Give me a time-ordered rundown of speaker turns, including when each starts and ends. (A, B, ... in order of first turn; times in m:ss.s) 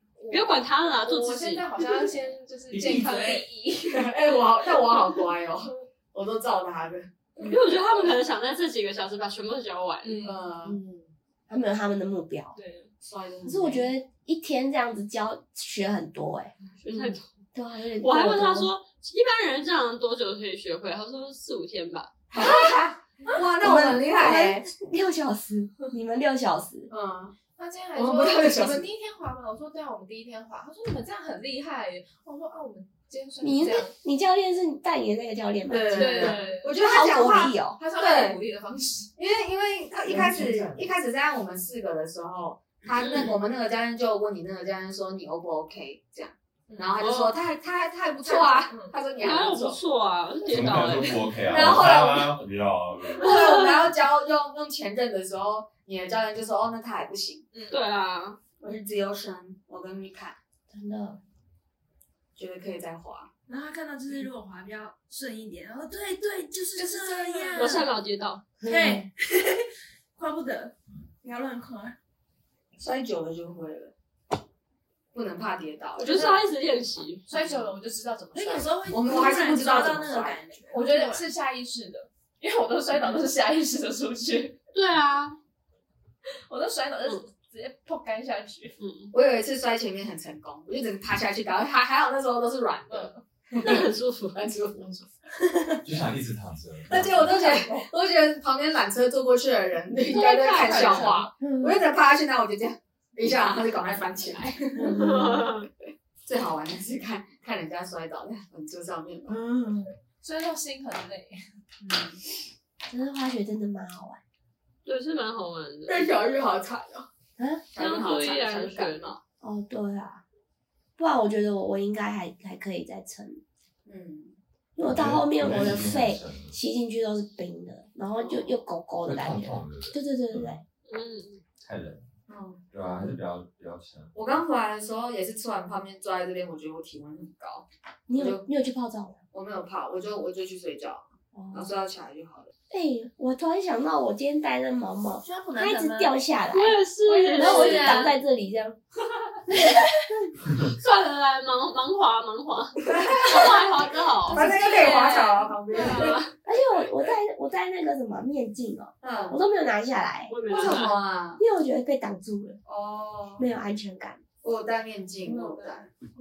0:00.2-0:04.1 A
0:00.3-0:01.7 B
0:02.7-0:03.3 C
0:03.9-0:07.1 D
0:07.4-0:10.3 B
0:10.0-0:10.5 A
0:10.2-0:10.8 D
0:10.6-0:11.0 E
0:11.5-0:12.6 E
0:12.6-0:12.8 B
0:13.0-0:13.9 D
0:13.4-0:16.5 E
0:16.8-0:17.3 B
0:17.5-0:18.7 E
0:18.0-0:22.1 B
0:22.3-0:24.6 D
0:23.6-0:26.9 E
0:26.9-0:27.4 D
0:27.6-0:33.9 A
0:28.0-0:28.9 D
0:33.4-0:37.8 E
0:35.7-0:38.4 D
0:35.9-0:39.1 A
0:39.2-0:49.8 D
0:40.2-0:40.8 A
0:46.7-0:47.3 A
0:48.2-0:49.0 A
0:49.2-0:51.3 B
0:50.5-0:53.5 C
0:50.5-0:51.2 A
0:51.4-0:52.4 D
0:53.2-0:57.4 D
0:57.7-0:58.4 B
0:58.6-1:00.4 D
1:00.7-1:01.2 E
1:02.4-1:03.3 D
1:03.5-1:07.9 F
1:06.8-1:07.8 A
1:07.6-1:08.4 B
1:08.6-1:09.1 E
1:08.6-1:12.0 F
1:12.8-1:13.9 D
1:15.1-1:16.4 D
1:16.0-1:17.3 B
1:17.3-1:18.9 A
1:17.4-1:17.6 D
1:18.3-1:21.3 F
1:18.9-1:20.6 D
1:20.7-1:24.6 A
1:24.7-1:25.4 B
1:26.5-1:28.7 A
1:28.8-1:29.1 B
1:29.1-1:33.9 D
1:32.9-1:33.2 A
1:33.6-1:35.0 B
1:35.8-1:37.5 C
1:36.9-1:45.4 D
1:40.1-1:41.2 B
1:40.1-1:41.3 A
1:41.4-1:41.8 E
1:44.8-1:45.4 E
1:44.9-1:45.7 B
1:46.2-1:49.4 D
1:49.3-1:49.9 F
1:50.2-1:51.4 A
1:51.8-1:52.2 D
1:52.9-1:54.2 E
1:54.8-1:56.2 B
1:55.9-1:57.1 A
1:57.4-1:57.6 E
1:57.7-1:59.2 D
1:57.8-1:59.2 B
1:59.4-2:00.2 E
2:01.0-2:03.4 E
2:03.8-2:04.4 D
2:04.8-2:10.6 E
2:04.8-2:06.6 C
2:09.0-2:10.6 C
2:10.9-2:11.4 B
2:11.6-2:12.0 C
2:12.3-2:12.6 D
2:12.7-2:14.1 C
2:14.1-2:18.5 D
2:18.1-2:19.2 E
2:19.3-2:22.5 D
2:21.3-2:21.7 E
2:22.7-2:28.8 E
2:25.2-2:26.2 F
2:26.5-2:28.2 B
2:27.1-2:28.0 D
2:27.4-2:28.0 A
2:29.5-2:29.9 E
2:30.8-2:35.1 B
2:32.9-2:33.6 D
2:34.3-2:36.3 A
2:34.3-2:36.2 D
2:34.3-2:35.3 F
2:35.7-2:36.3 B
2:36.4-2:40.8 E
2:39.0-2:39.4 D
2:40.3-2:41.0 B
2:40.5-2:41.4 D
2:41.4-2:42.6 E
2:42.6-2:43.5 D
2:43.4-2:44.2 E
2:44.4-2:45.9 D